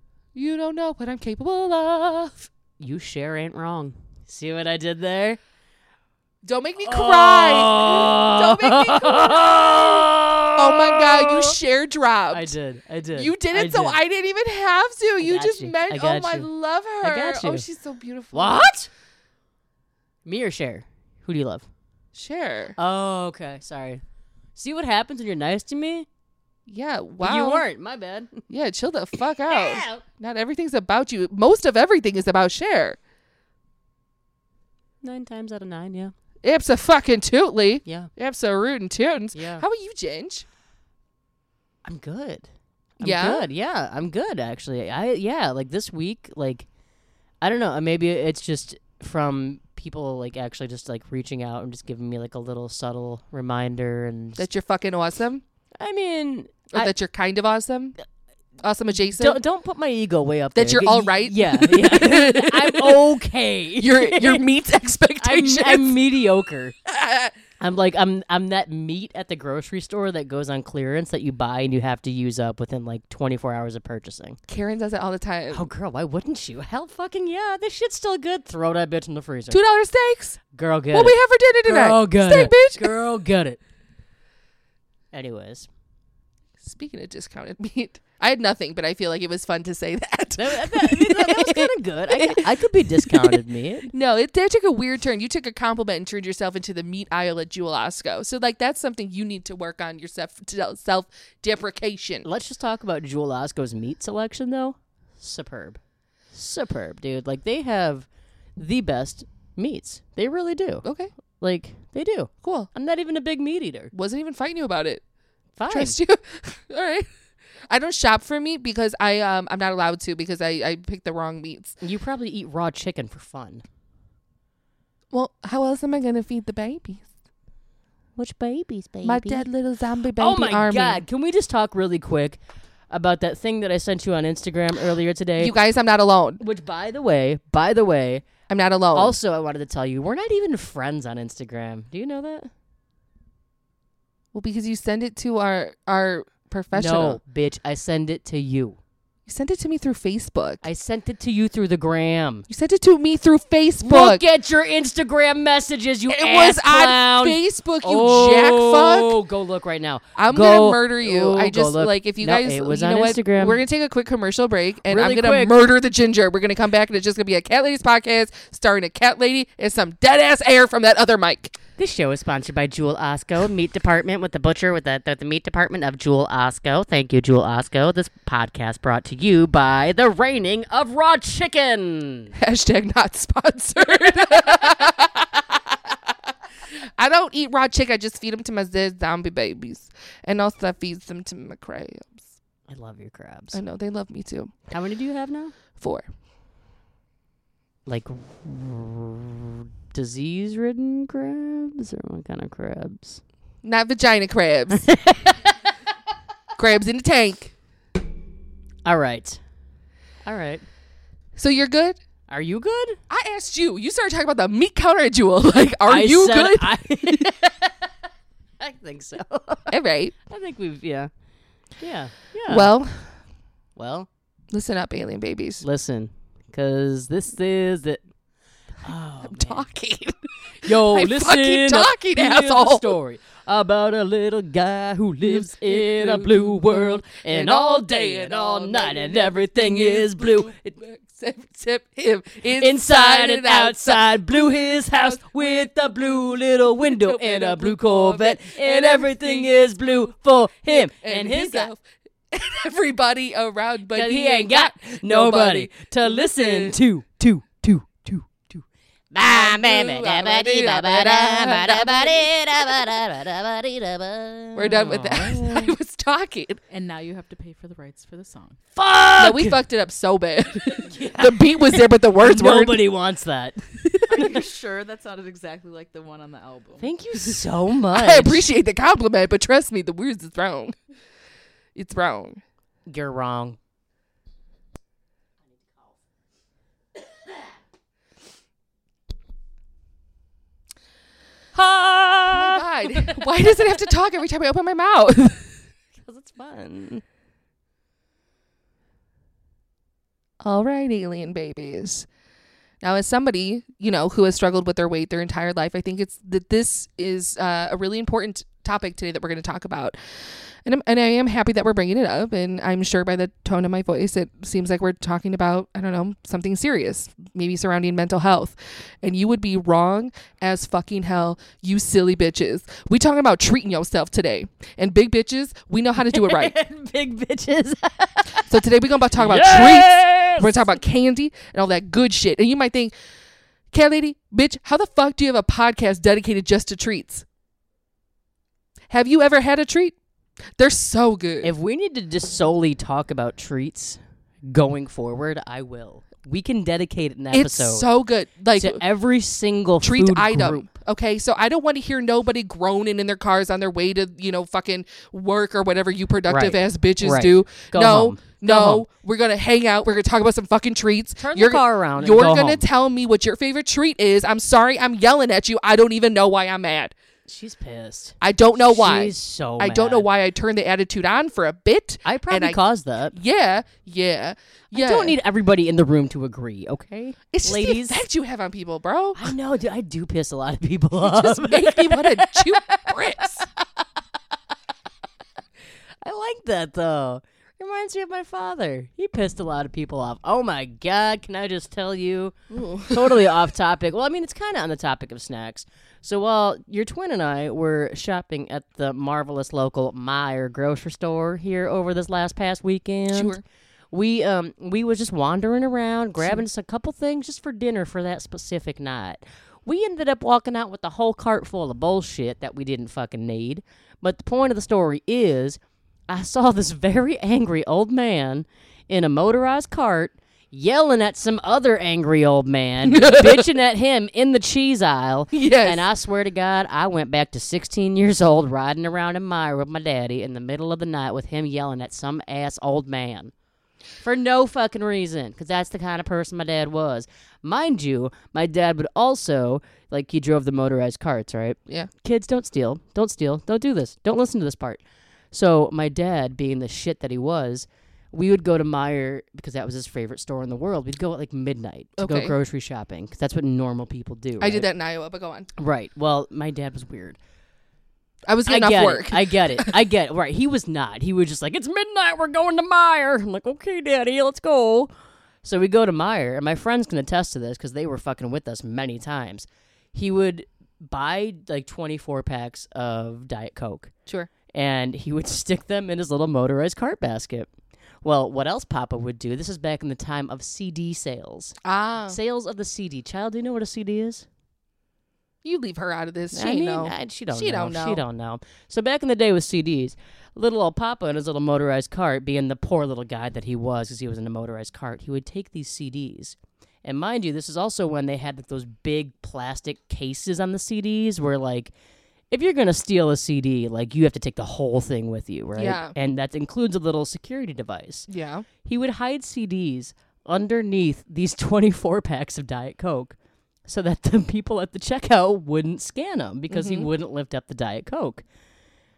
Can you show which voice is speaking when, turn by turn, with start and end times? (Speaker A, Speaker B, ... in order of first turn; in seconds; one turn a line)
Speaker A: 0.3-2.5
Speaker B: 2.8-5.4
Speaker A: 6.4-12.5
Speaker B: 6.8-11.6
Speaker B: 12.3-14.0
Speaker A: 13.1-18.7
Speaker B: 15.2-16.5
Speaker B: 17.0-17.6
Speaker B: 18.3-18.9
Speaker B: 20.2-21.7
Speaker A: 22.1-22.8
Speaker B: 22.8-24.0
Speaker B: 24.6-26.1
Speaker A: 26.7-27.6
Speaker B: 27.2-28.4
Speaker A: 28.5-33.0
Speaker B: 29.5-30.0
Speaker B: 35.0-36.1
Speaker A: 36.4-40.4
Speaker B: 37.8-38.1
Speaker B: 39.3-39.6
Speaker B: 41.8-46.6
Speaker A: 43.0-43.5
Speaker B: 47.4-54.5
Speaker A: 54.4-55.4
Speaker B: 55.8-56.9
Speaker A: 56.7-58.0
Speaker A: 58.6-59.4
Speaker B: 59.1-64.4
Speaker A: 60.5-63.1
Speaker A: 63.8-66.0
Speaker B: 65.2-66.7
Speaker A: 66.8-67.3
Speaker B: 67.6-74.4
Speaker A: 74.5-75.6
Speaker B: 75.5-79.6
Speaker A: 79.5-80.4
Speaker B: 80.5-83.6
Speaker A: 80.9-82.9
Speaker B: 85.1-85.7
Speaker A: 86.6-93.4
Speaker B: 90.4-93.9
Speaker A: 93.9-102.2
Speaker B: 102.2-105.8
Speaker B: 106.3-110.8
Speaker A: 110.8-111.1
Speaker B: 111.4-113.9
Speaker A: 112.4-112.7
Speaker A: 113.9-115.0
Speaker B: 115.6-116.0
Speaker A: 115.7-117.1
Speaker A: 117.7-121.8
Speaker B: 121.8-123.6
Speaker A: 125.1-127.1
Speaker B: 128.2-129.4
Speaker A: 129.0-131.0
Speaker B: 130.2-135.5
Speaker A: 135.4-136.4
Speaker B: 136.4-138.3
Speaker A: 138.5-139.2
Speaker B: 138.9-142.5
Speaker A: 144.3-147.2
Speaker B: 146.7-148.8
Speaker A: 149.3-150.6
Speaker B: 150.6-152.5
Speaker A: 152.5-154.2
Speaker B: 153.8-163.6
Speaker A: 156.1-159.2
Speaker A: 160.2-171.6
Speaker B: 164.9-165.7
Speaker B: 171.8-182.3
Speaker A: 182.3-186.1
Speaker A: 186.7-192.3
Speaker B: 192.7-193.6
Speaker A: 193.5-194.5
Speaker B: 194.7-195.5
Speaker A: 195.8-196.1
Speaker B: 197.8-203.2
Speaker A: 203.6-204.9
Speaker B: 204.7-205.5
Speaker A: 206.6-207.5
Speaker B: 208.8-209.4
Speaker B: 210.2-210.6
Speaker A: 211.3-212.0
Speaker B: 212.3-213.0
Speaker A: 213.1-217.3
Speaker B: 215.8-217.9
Speaker B: 218.6-219.7
Speaker A: 219.7-220.1
Speaker B: 220.3-221.1
Speaker B: 221.8-222.7
Speaker A: 222.5-223.2
Speaker B: 223.8-224.1
Speaker A: 224.5-225.6
Speaker B: 225.6-228.0
Speaker B: 228.8-229.6
Speaker A: 229.2-232.9
Speaker B: 230.6-240.5
Speaker A: 235.3-244.3
Speaker B: 242.6-251.7
Speaker A: 245.0-245.3
Speaker A: 246.8-249.5
Speaker A: 250.7-256.8
Speaker B: 253.9-265.7
Speaker A: 259.2-262.9
Speaker A: 264.5-266.6
Speaker C: 266.7-268.6
Speaker B: 268.8-269.6
Speaker A: 269.2-272.8
Speaker B: 270.8-274.3
Speaker A: 273.9-274.2
Speaker C: 274.1-276.9
Speaker B: 276.8-278.4
Speaker A: 277.9-280.7
Speaker A: 281.7-282.4
Speaker B: 282.9-283.6
Speaker B: 291.5-293.6
Speaker A: 292.3-295.5
Speaker B: 296.0-297.0
Speaker A: 300.4-302.1
Speaker A: 302.8-326.5
Speaker B: 326.1-328.5
Speaker A: 328.4-332.9
Speaker B: 329.1-330.8
Speaker A: 333.7-337.2
Speaker A: 338.9-339.9
Speaker A: 340.6-341.5
Speaker B: 341.4-347.9
Speaker A: 347.3-348.8
Speaker B: 348.5-350.7
Speaker A: 349.8-366.9
Speaker B: 356.3-358.9
Speaker B: 361.2-362.6
Speaker B: 367.2-370.1
Speaker A: 368.2-372.6
Speaker B: 372.0-373.1
Speaker A: 373.1-375.1
Speaker B: 374.7-378.0
Speaker A: 377.3-379.3
Speaker B: 379.1-382.9
Speaker A: 381.0-383.5
Speaker B: 386.0-403.4
Speaker A: 392.5-393.2
Speaker A: 403.1-403.4
Speaker B: 403.9-433.3
Speaker A: 422.9-423.5
Speaker A: 425.3-425.9
Speaker B: 434.0-454.7
Speaker A: 452.0-452.3
Speaker A: 454.4-455.5
Speaker B: 455.6-457.2
Speaker A: 458.3-459.7
Speaker B: 458.4-464.9
Speaker B: 465.4-473.9
Speaker B: 474.5-477.5
Speaker B: 478.0-484.2
Speaker A: 481.6-482.2
Speaker A: 485.4-488.0
Speaker B: 486.3-501.7
Speaker B: 502.3-508.1
Speaker A: 505.6-505.9
Speaker A: 508.1-508.4
Speaker B: 508.6-518.2
Speaker A: 516.5-516.9